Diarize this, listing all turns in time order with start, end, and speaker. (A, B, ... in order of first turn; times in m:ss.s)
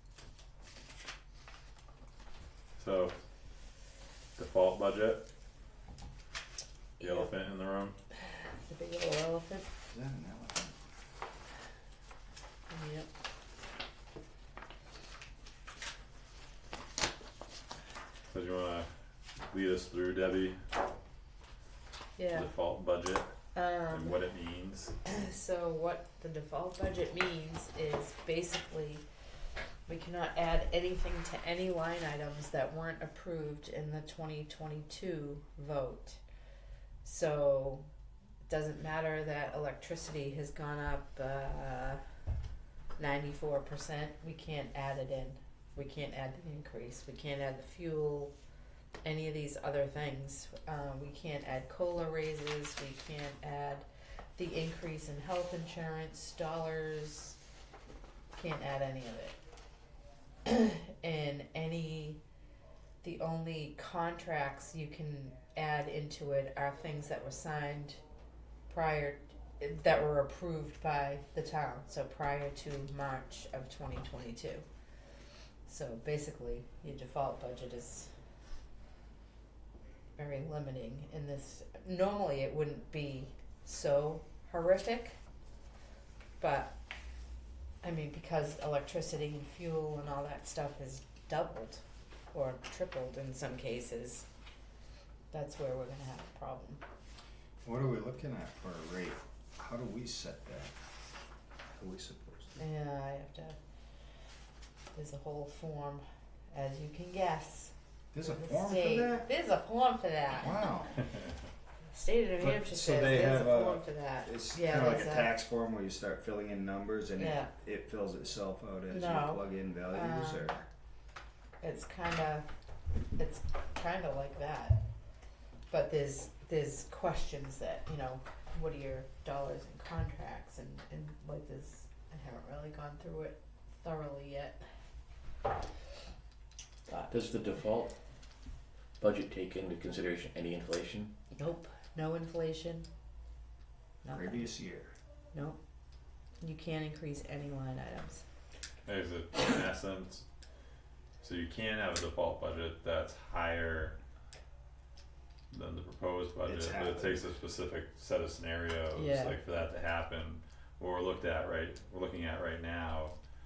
0:02.8-0:03.1 A
0:04.4-0:05.2 A
0:07.0-0:07.3 B
0:07.0-0:08.0 A
0:08.2-0:09.7 B
0:09.9-0:10.8 C
0:12.7-0:13.1 B
0:18.3-0:18.9 A
0:19.5-0:20.6 A
0:22.2-0:22.5 B
0:22.3-0:23.3 A
0:23.5-0:24.2 B
0:23.9-0:24.9 A
0:25.0-0:29.0 B
0:29.9-0:36.2 B
0:37.0-0:37.8 B
0:38.5-0:42.0 B
0:43.0-0:48.3 B
0:49.0-0:57.4 B
0:58.3-0:59.4 B
1:00.4-1:02.2 B
1:03.0-1:08.0 B
1:08.7-1:14.6 B
1:15.7-1:18.1 B
1:20.2-1:25.2 B
1:26.4-1:26.7 B
1:27.8-1:34.2 B
1:35.3-1:36.8 B
1:37.6-1:40.7 C
1:41.7-1:42.6 C
1:42.6-1:43.6 B
1:44.9-1:50.8 B
1:48.1-1:49.3 C
1:50.3-1:50.9 C
1:51.9-1:55.4 B
1:52.4-2:00.6 C
1:57.2-1:57.5 B
1:58.9-2:00.6 B
2:01.6-2:02.5 B
2:03.2-2:04.8 B
2:05.7-2:14.6 B
2:16.9-2:17.9 D
2:19.0-2:21.1 D
2:21.3-2:22.9 B
2:24.0-2:24.5 B
2:24.1-2:24.9 C
2:25.3-2:25.6 B
2:26.4-2:28.2 B
2:28.8-2:30.2 A
2:31.2-2:34.0 A
2:35.5-2:43.1 A
2:36.4-2:37.2 C
2:38.9-2:39.4 B